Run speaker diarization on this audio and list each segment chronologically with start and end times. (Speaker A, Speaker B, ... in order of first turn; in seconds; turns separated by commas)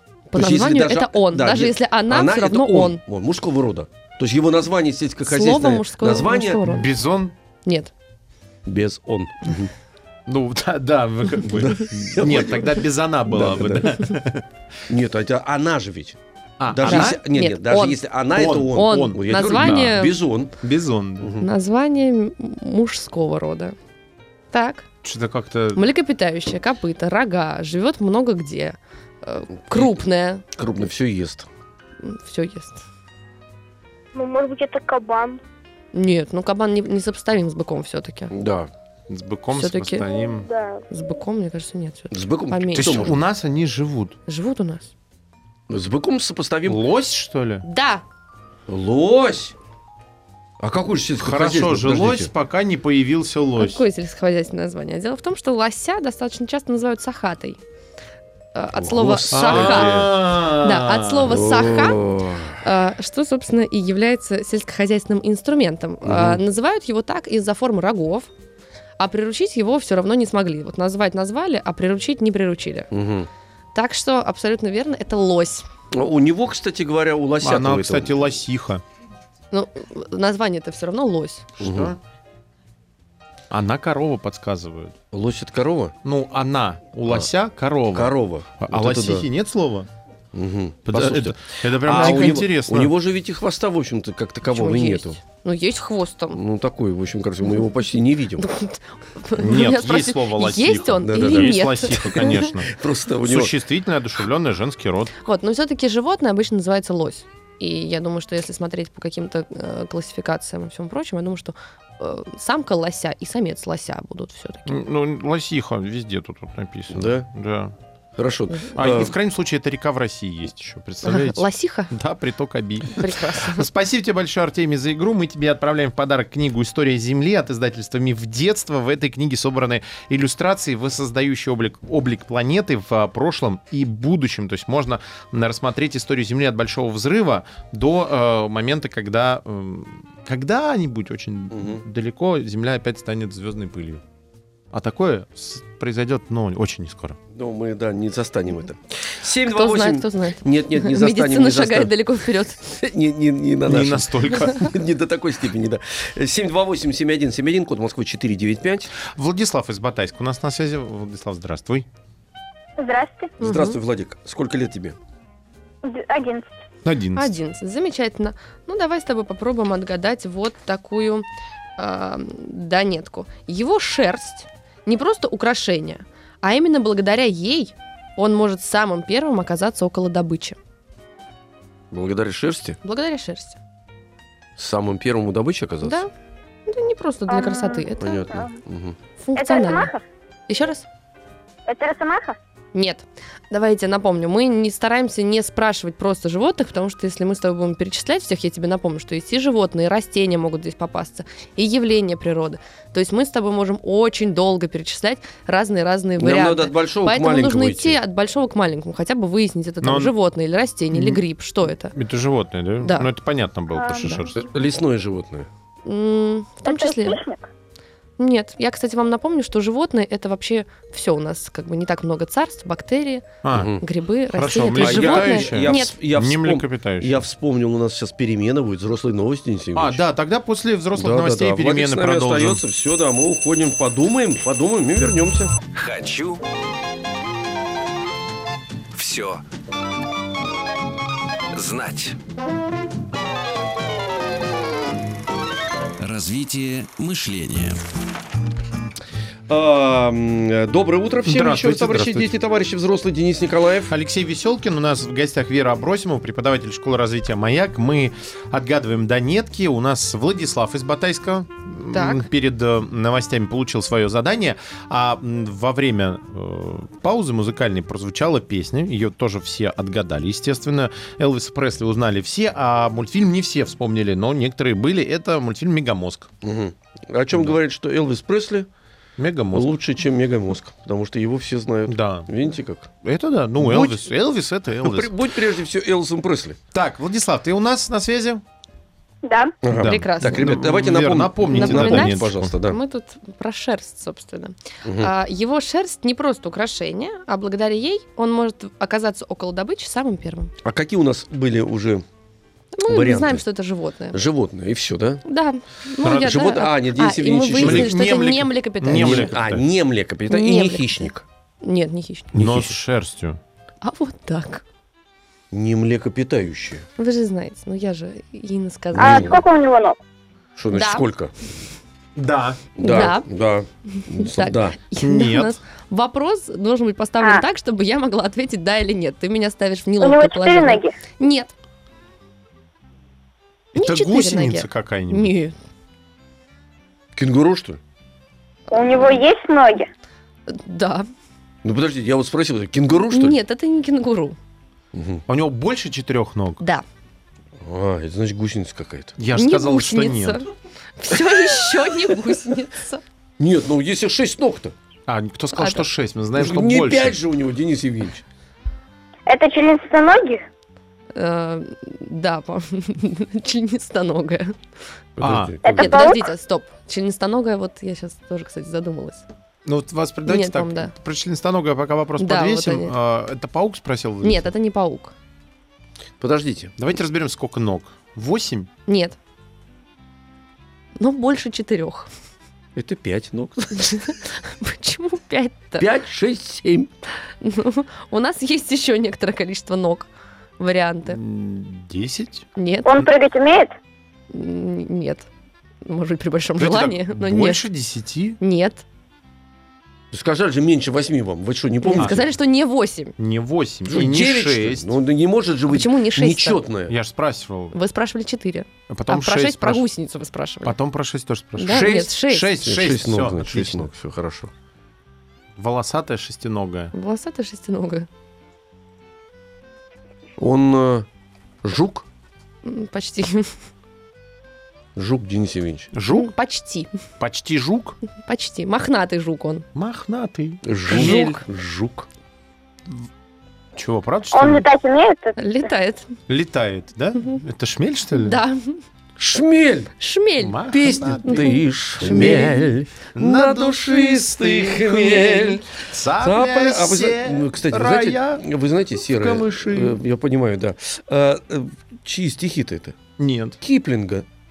Speaker A: 0.3-3.0, Speaker B: 0.3-6.7, Speaker A: 5.2-6.9, Speaker C: 6.6-7.3, Speaker A: 7.7-7.9, Speaker B: 8.7-9.7, Speaker C: 10.3-14.4, Speaker B: 11.5-14.0, Speaker B: 14.9-16.2, Speaker C: 16.6-17.2, Speaker B: 16.7-20.5, Speaker A: 16.9-18.0, Speaker C: 18.3-20.0, Speaker A: 18.7-20.2, Speaker C: 20.6-21.4, Speaker B: 21.2-21.5, Speaker A: 21.4-23.8, Speaker A: 24.5-24.9, Speaker C: 25.0-25.8, Speaker A: 25.7-30.4, Speaker B: 30.6-31.5, Speaker A: 32.0-32.8, Speaker D: 34.1-35.4, Speaker A: 35.9-38.3, Speaker B: 38.3-38.7, Speaker C: 39.1-40.5, Speaker A: 39.5-40.1, Speaker D: 40.3-40.8, Speaker A: 40.9-43.1, Speaker B: 42.1-43.2, Speaker C: 42.8-44.2, Speaker A: 44.3-44.9, Speaker B: 45.7-46.8, Speaker C: 46.7-47.6, Speaker A: 47.6-48.0, Speaker B: 48.7-49.5, Speaker B: 50.6-52.3, Speaker C: 51.2-53.8, Speaker A: 53.6-57.6, Speaker A: 58.5-68.3, Speaker B: 58.8-60.1, Speaker C: 59.3-61.5, Speaker B: 61.3-62.6, Speaker B: 66.0-66.4, Speaker A: 69.0-72.9, Speaker B: 72.9-73.3, Speaker A: 73.7-75.7, Speaker B: 75.9-78.2, Speaker C: 77.4-78.8, Speaker A: 79.5-81.5, Speaker C: 81.6-82.0, Speaker B: 81.6-82.0, Speaker C: 83.5-85.0, Speaker B: 85.1-86.0, Speaker C: 86.0-89.9, Speaker B: 87.9-89.3, Speaker B: 90.3-95.2, Speaker C: 90.9-92.9, Speaker A: 92.0-92.3, Speaker A: 94.5-96.4, Speaker B: 96.3-98.5, Speaker A: 98.4-102.5, Speaker C: 99.4-102.7, Speaker B: 101.0-103.5, Speaker C: 103.2-105.1, Speaker A: 105.2-114.8, Speaker C: 114.7-117.8, Speaker B: 116.9-117.3, Speaker B: 118.2-119.1, Speaker C: 118.8-144.0, Speaker A: 121.0-121.9, Speaker A: 122.9-123.7, Speaker B: 141.5-141.8, Speaker C: 144.7-147.2, Speaker B: 147.3-152.0, Speaker A: 149.4-152.8, Speaker B: 152.6-158.9, Speaker C: 153.7-154.8, Speaker C: 159.1-161.9, Speaker D: 162.8-163.4, Speaker B: 163.4-165.0, Speaker A: 163.4-163.8, Speaker D: 165.8-166.5, Speaker C: 166.8-167.3, Speaker A: 167.2-171.3, Speaker A: 171.8-180.6, Speaker B: 181.9-182.8, Speaker A: 182.8-183.6, Speaker B: 184.6-186.0, Speaker A: 185.8-186.1, Speaker A: 186.7-188.3, Speaker D: 187.3-188.5, Speaker B: 188.0-189.0, Speaker A: 189.2-189.9, Speaker D: 189.4-190.0, Speaker A: 190.5-190.8, Speaker D: 191.7-192.4, Speaker A: 192.7-211.9, Speaker B: 206.2-208.0, Speaker C: 209.8-210.1, Speaker C: 210.9-211.2, Speaker C: 211.9-214.4, Speaker A: 212.8-213.1, Speaker D: 213.7-214.3, Speaker B: 214.4-215.5, Speaker A: 215.8-217.2, Speaker D: 216.7-217.4, Speaker A: 218.2-223.3, Speaker C: 223.4-223.8, Speaker B: 223.5-223.8, Speaker A: 223.8-226.0, Speaker C: 224.3-227.2, Speaker B: 224.7-230.0, Speaker C: 229.8-232.6, Speaker B: 230.9-235.5, Speaker E: 235.8-236.4, Speaker E: 238.9-239.4, Speaker E: 241.5-242.2, Speaker E: 246.0-247.8, Speaker B: 249.5-253.9, Speaker C: 251.2-252.3, Speaker C: 253.9-276.3, Speaker A: 261.9-262.3, Speaker B: 276.4-278.7, Speaker C: 279.2-279.7, Speaker B: 279.5-282.9, Speaker C: 281.9-282.3, Speaker C: 283.0-285.1, Speaker B: 283.6-284.1, Speaker B: 284.8-286.6, Speaker C: 286.7-288.4, Speaker D: 289.2-289.6, Speaker B: 289.6-292.8, Speaker C: 289.7-292.5, Speaker A: 289.8-290.6, Speaker A: 291.5-300.5, Speaker B: 294.9-295.1, Speaker B: 300.6-302.1, Speaker A: 302.7-304.2, Speaker B: 302.9-303.4, Speaker B: 304.1-305.2, Speaker A: 305.2-309.3, Speaker C: 306.0-306.4, Speaker B: 306.2-307.9, Speaker C: 307.6-309.6, Speaker B: 308.9-311.2, Speaker A: 310.3-311.1, Speaker A: 311.6-312.3, Speaker C: 312.3-313.4, Speaker B: 312.4-312.8, Speaker A: 313.8-314.6, Speaker B: 315.5-316.9, Speaker A: 317.0-319.4, Speaker B: 318.9-319.4, Speaker D: 319.0-320.0, Speaker B: 320.6-321.3, Speaker A: 320.7-321.1, Speaker C: 322.2-322.6, Speaker B: 322.8-324.8, Speaker A: 322.8-323.3, Speaker A: 323.9-331.5, Speaker C: 325.0-325.6, Speaker D: 330.0-331.0, Speaker C: 333.7-335.3, Speaker A: 333.8-335.6, Speaker B: 337.2-337.8, Speaker D: 338.7-339.9, Speaker A: 340.5-341.1, Speaker B: 341.6-343.4, Speaker A: 343.1-344.4, Speaker B: 344.9-345.2, Speaker C: 345.3-346.6, Speaker B: 347.6-349.2, Speaker C: 349.2-350.4, Speaker A: 349.3-350.5, Speaker A: 351.0-353.0, Speaker B: 351.3-351.6, Speaker B: 353.4-354.8, Speaker C: 355.1-357.2, Speaker A: 355.6-355.8, Speaker B: 356.4-358.2, Speaker D: 359.3-360.4, Speaker A: 361.1-364.6, Speaker B: 365.2-366.0, Speaker C: 365.2-365.6, Speaker D: 365.6-366.2, Speaker A: 365.7-369.3, Speaker C: 369.6-374.5, Speaker A: 370.2-370.9, Speaker A: 372.2-372.9, Speaker A: 374.2-375.1, Speaker B: 376.2-376.8, Speaker C: 376.8-378.7, Speaker A: 378.9-379.2, Speaker A: 381.0-382.1, Speaker B: 382.8-384.1, Speaker A: 383.8-385.9, Speaker B: 385.8-386.9, Speaker A: 387.4-391.2, Speaker C: 391.1-392.5, Speaker A: 392.6-393.0, Speaker D: 392.9-393.8, Speaker A: 394.3-395.3, Speaker A: 395.9-397.6, Speaker C: 396.6-398.4, Speaker A: 398.4-398.8, Speaker B: 400.1-402.3, Speaker A: 401.8-403.1, Speaker C: 402.0-402.2, Speaker C: 403.2-404.9, Speaker B: 403.9-406.9, Speaker A: 405.7-406.6, Speaker C: 406.9-407.8, Speaker A: 407.7-410.8, Speaker C: 408.9-409.8, Speaker C: 410.6-413.9, Speaker A: 411.6-412.6, Speaker B: 412.6-414.5, Speaker C: 415.6-416.9, Speaker A: 416.9-418.1, Speaker B: 420.4-421.1, Speaker B: 421.6-422.1, Speaker A: 422.6-423.6, Speaker B: 425.0-425.9, Speaker C: 425.9-426.3, Speaker A: 426.1-426.9, Speaker C: 427.2-428.0, Speaker A: 428.2-429.7, Speaker C: 429.8-431.4, Speaker B: 430.6-432.1, Speaker A: 430.9-431.4, Speaker C: 433.8-434.7, Speaker D: 434.3-435.4, Speaker A: 435.4-436.1, Speaker C: 436.3-438.4, Speaker A: 438.1-438.8, Speaker B: 439.2-439.9, Speaker A: 440.0-440.7, Speaker C: 440.4-442.6, Speaker B: 440.7-453.0, Speaker A: 441.2-442.7, Speaker C: 443.2-448.4, Speaker C: 449.0-450.0, Speaker C: 453.2-453.6, Speaker B: 453.6-454.3